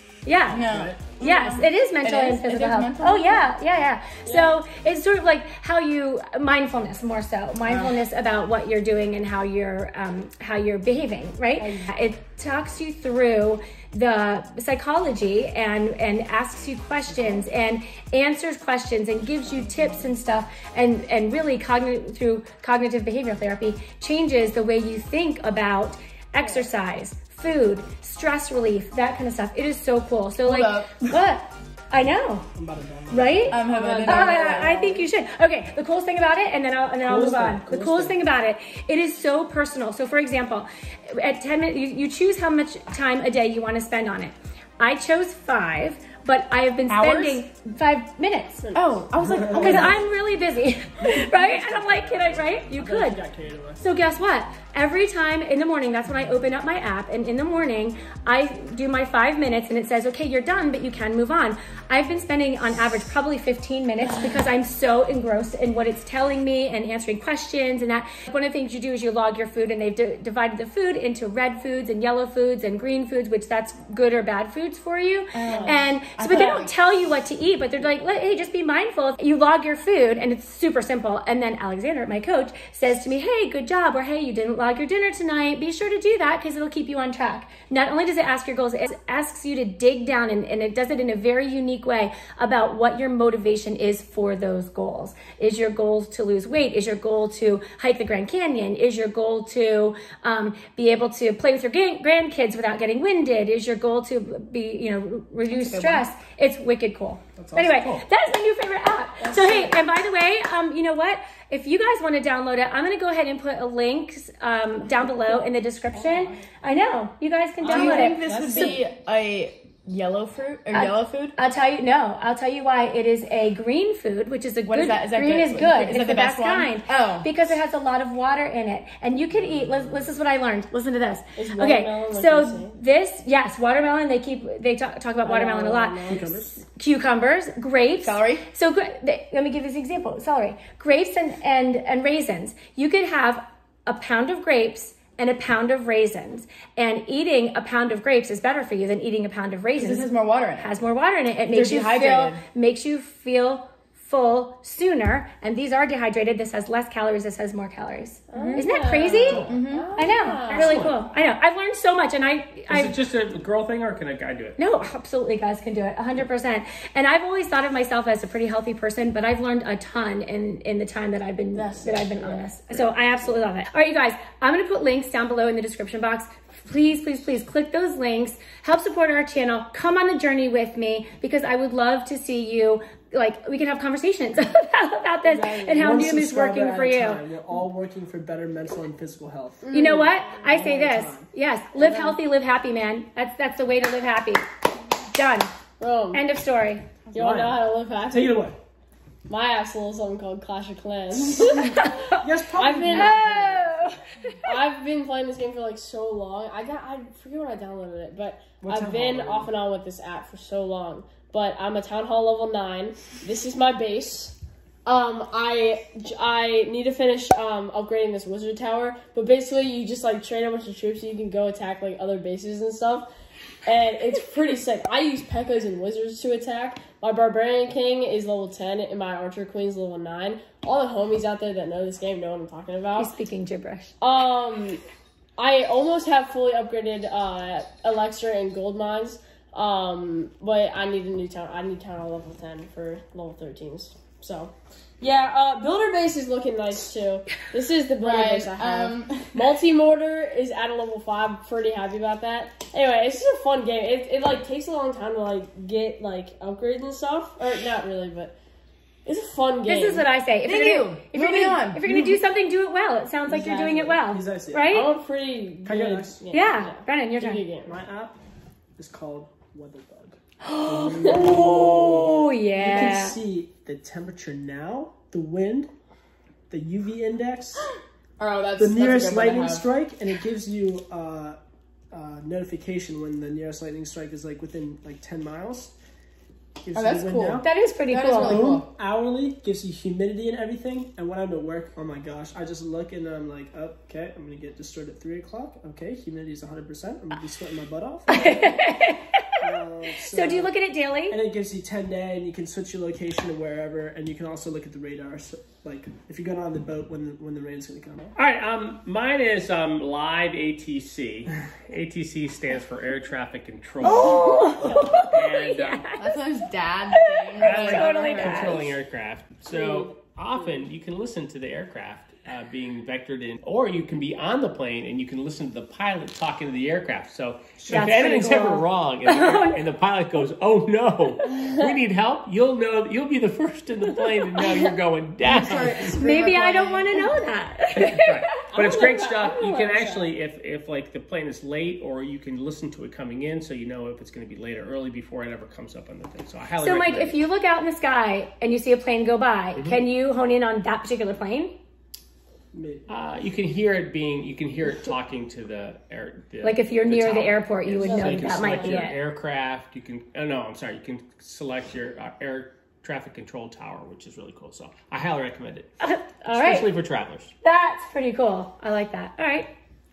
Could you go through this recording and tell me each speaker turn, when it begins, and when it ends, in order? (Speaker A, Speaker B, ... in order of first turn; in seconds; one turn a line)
Speaker A: 0.2-0.6
Speaker B: 0.5-3.5
Speaker C: 0.5-1.0
Speaker A: 1.1-32.5
Speaker D: 4.2-4.6
Speaker D: 11.6-11.9
Speaker B: 30.4-31.2
Speaker C: 32.6-34.0
Speaker A: 33.1-48.6
Speaker B: 33.5-34.9
Speaker D: 33.7-35.1
Speaker C: 37.0-38.2
Speaker B: 46.9-47.4
Speaker D: 48.6-49.6
Speaker B: 48.7-50.0
Speaker C: 49.3-50.0
Speaker A: 49.6-53.2
Speaker C: 51.0-53.9
Speaker A: 53.8-118.8
Speaker B: 75.3-76.7
Speaker D: 75.5-76.3
Speaker B: 105.5-106.1
Speaker C: 107.4-107.8
Speaker E: 107.8-108.1
Speaker D: 109.2-109.8
Speaker D: 115.0-115.4
Speaker D: 115.9-116.4
Speaker D: 117.6-118.8
Speaker B: 117.7-121.3
Speaker A: 120.7-163.0
Speaker B: 124.7-127.3
Speaker D: 131.4-132.8
Speaker D: 135.2-136.5
Speaker C: 136.1-136.5
Speaker B: 138.0-138.4
Speaker B: 149.8-150.8
Speaker B: 151.5-152.4
Speaker D: 158.3-160.9
Speaker B: 158.4-158.6
Speaker B: 159.4-159.9
Speaker E: 160.5-161.0
Speaker E: 162.7-164.6
Speaker A: 164.6-187.2
Speaker D: 171.5-172.5
Speaker D: 185.2-185.9
Speaker C: 185.8-189.6
Speaker D: 189.6-190.4
Speaker A: 189.7-194.4
Speaker C: 190.5-191.3
Speaker D: 191.8-192.2
Speaker A: 195.1-195.5
Speaker D: 195.8-196.2
Speaker A: 196.1-196.9
Speaker D: 197.1-198.5
Speaker C: 197.1-198.6
Speaker D: 199.3-201.9
Speaker C: 201.1-201.6
Speaker A: 201.7-202.2
Speaker C: 202.2-203.9
Speaker D: 202.5-203.5
Speaker A: 202.9-204.3
Speaker D: 204.4-223.1
Speaker C: 208.6-209.5
Speaker D: 223.7-233.1
Speaker A: 233.0-233.9
Speaker D: 234.0-234.8
Speaker D: 235.4-258.4
Speaker B: 248.0-249.5
Speaker D: 259.1-260.1
Speaker A: 259.6-264.9
Speaker B: 260.4-262.2
Speaker D: 263.3-264.0
Speaker C: 264.0-264.7
Speaker D: 264.7-267.7
Speaker C: 265.6-266.2
Speaker A: 266.3-267.4
Speaker C: 267.6-268.2
Speaker C: 268.8-275.7
Speaker A: 270.4-273.2
Speaker D: 270.9-271.4
Speaker D: 272.6-273.1
Speaker C: 276.5-277.7
Speaker B: 278.2-279.6
Speaker C: 278.6-281.4
Speaker C: 281.9-285.7
Speaker C: 286.6-287.5
Speaker B: 286.7-288.7
Speaker A: 287.4-288.5
Speaker C: 288.2-298.6
Speaker A: 298.1-299.2
Speaker C: 299.4-300.5
Speaker A: 300.1-301.2
Speaker C: 301.1-308.1
Speaker E: 308.1-315.9
Speaker A: 313.8-316.2
Speaker B: 316.0-318.8
Speaker A: 316.9-318.6
Speaker E: 317.4-336.0
Speaker D: 319.5-320.5
Speaker C: 327.7-328.4
Speaker A: 327.7-329.6
Speaker B: 335.2-337.2
Speaker A: 336.0-338.3
Speaker E: 337.8-347.2
Speaker D: 338.4-340.1
Speaker A: 346.6-351.6
Speaker C: 352.5-352.9
Speaker E: 352.9-365.7
Speaker A: 356.4-359.0
Speaker D: 357.8-358.7
Speaker C: 357.9-358.8
Speaker A: 365.8-366.7
Speaker E: 366.3-367.3
Speaker A: 367.4-369.5